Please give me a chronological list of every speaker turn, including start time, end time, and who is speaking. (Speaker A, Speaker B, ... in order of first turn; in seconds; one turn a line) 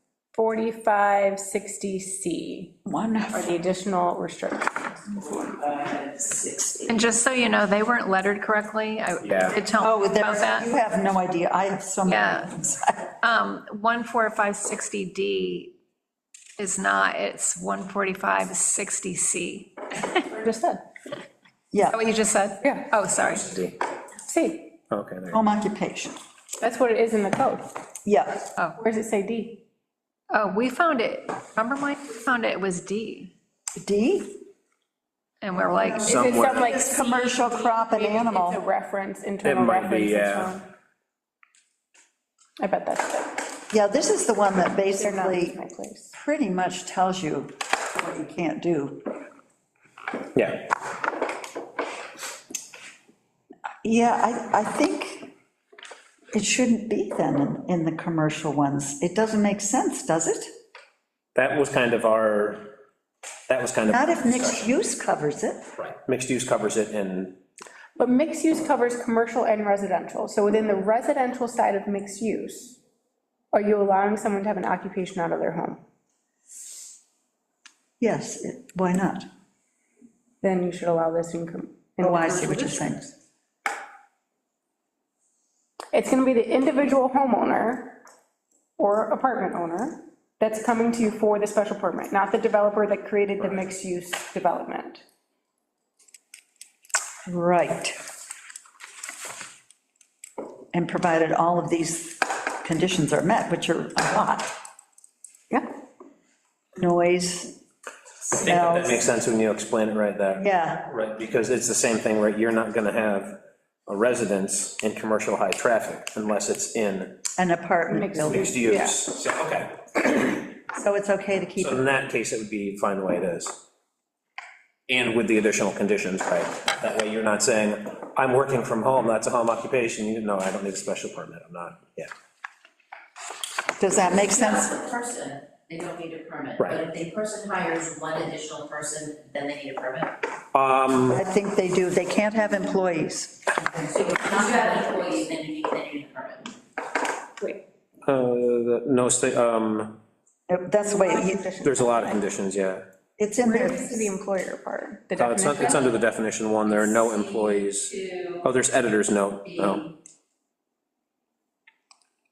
Speaker A: 0.3-2.7
Speaker B: 2.9-3.5
Speaker A: 3.3-6.0
Speaker C: 6.1-6.8
Speaker D: 6.9-10.7
Speaker E: 9.2-9.6
Speaker B: 9.8-13.1
Speaker D: 12.1-12.5
Speaker D: 13.2-15.7
Speaker D: 16.6-20.2
Speaker A: 20.3-20.9
Speaker B: 21.7-22.0
Speaker D: 21.9-23.5
Speaker A: 22.6-22.9
Speaker E: 23.4-23.8
Speaker A: 24.2-24.7
Speaker E: 24.9-25.4
Speaker B: 25.3-26.2
Speaker A: 26.6-27.7
Speaker B: 28.1-28.5
Speaker A: 28.8-29.6
Speaker D: 30.3-33.3
Speaker B: 33.8-34.4
Speaker D: 35.4-36.2
Speaker B: 35.8-38.6
Speaker A: 36.1-40.7
Speaker E: 36.1-36.7
Speaker E: 39.4-40.6
Speaker A: 42.6-43.5
Speaker B: 43.7-45.6
Speaker A: 44.9-46.1
Speaker B: 46.1-49.1
Speaker E: 50.4-50.7
Speaker B: 53.8-55.3
Speaker B: 56.3-60.5
Speaker E: 61.4-62.8
Speaker E: 63.5-64.7
Speaker B: 63.9-65.7
Speaker E: 65.8-67.4
Speaker A: 68.0-72.8
Speaker A: 73.5-75.8
Speaker B: 78.0-79.2
Speaker A: 80.4-83.0
Speaker B: 82.0-83.1
Speaker A: 85.9-88.0
Speaker A: 88.8-95.0
Speaker B: 97.3-98.0
Speaker B: 100.7-104.5
Speaker B: 106.8-107.6
Speaker B: 108.2-109.0
Speaker E: 108.4-113.4
Speaker B: 110.4-110.9
Speaker E: 113.9-117.2
Speaker B: 117.4-118.5
Speaker A: 117.9-119.0
Speaker E: 118.2-120.1
Speaker B: 120.7-121.9
Speaker E: 121.6-123.6
Speaker E: 124.9-132.1
Speaker B: 133.8-134.8
Speaker C: 134.0-140.2
Speaker E: 140.5-141.2
Speaker B: 141.1-143.5
Speaker C: 143.8-146.6
Speaker E: 148.1-150.0
Speaker B: 150.5-151.5
Speaker A: 150.8-152.2
Speaker E: 151.6-152.8
Speaker B: 153.2-154.1
Speaker A: 153.4-156.0
Speaker E: 155.2-159.8
Speaker C: 156.7-158.5
Speaker C: 159.5-159.9